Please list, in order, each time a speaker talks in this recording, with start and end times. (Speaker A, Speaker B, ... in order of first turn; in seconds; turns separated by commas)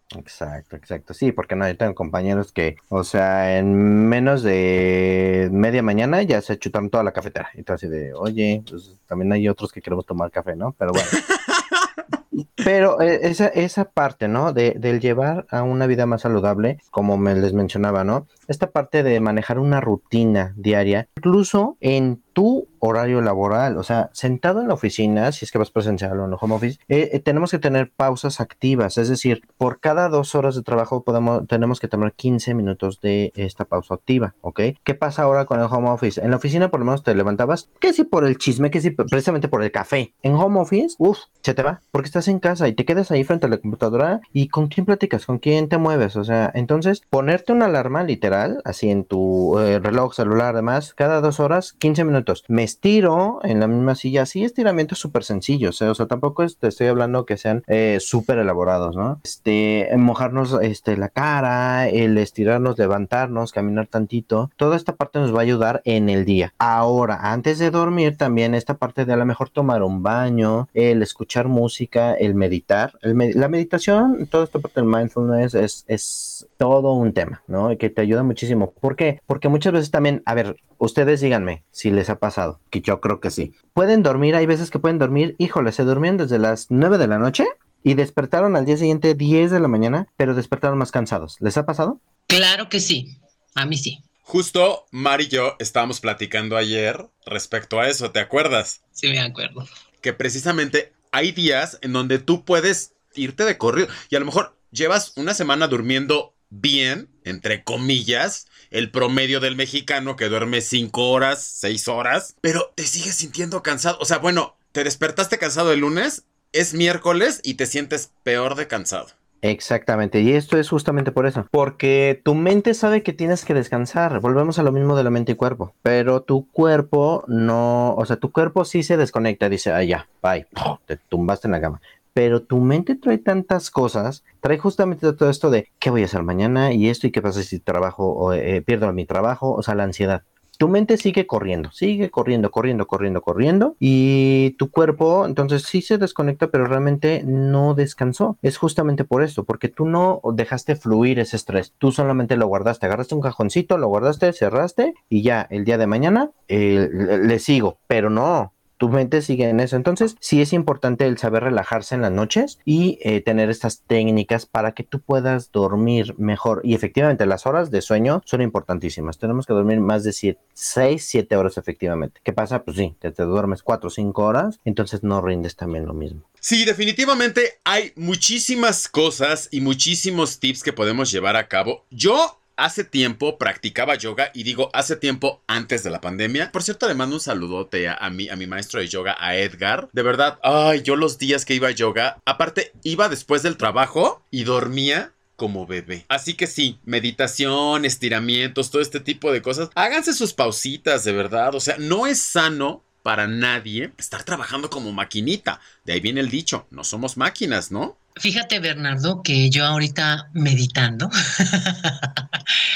Speaker A: 0.1-11.2, Speaker B: 11.0-12.0, Speaker A: 12.6-92.0, Speaker C: 92.3-94.0, Speaker B: 94.2-98.8, Speaker C: 99.0-99.7, Speaker B: 100.0-119.1, Speaker A: 119.4-176.2, Speaker B: 176.4-207.9, Speaker C: 208.2-212.4